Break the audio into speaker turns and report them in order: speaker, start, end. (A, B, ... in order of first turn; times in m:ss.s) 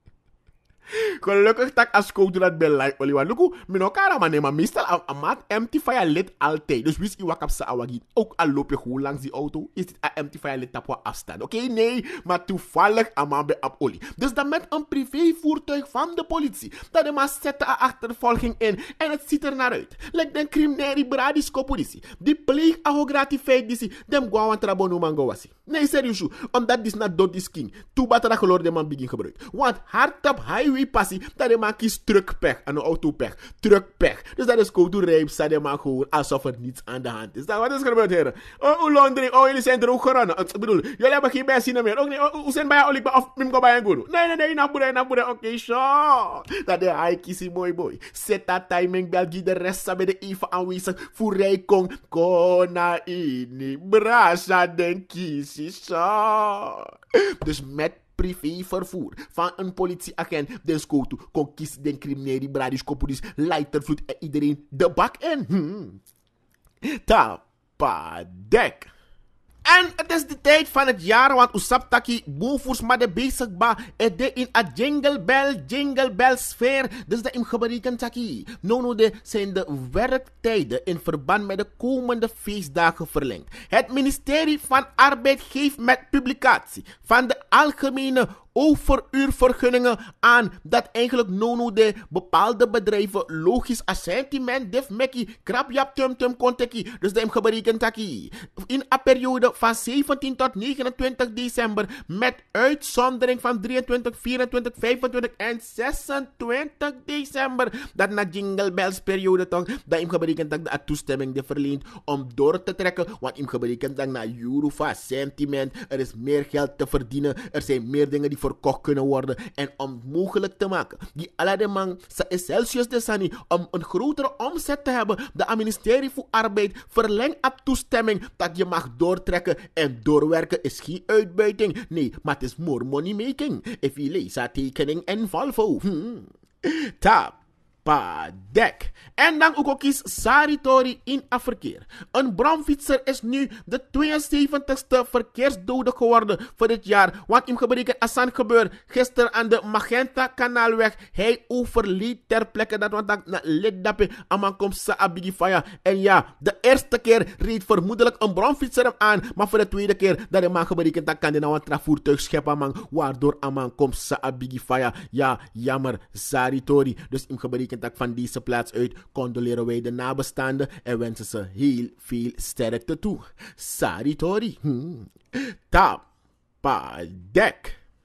0:01.2-1:06.0 A
1:06.8-1:08.9 A
1:09.6-2:56.0 A
2:56.6-2:57.8 A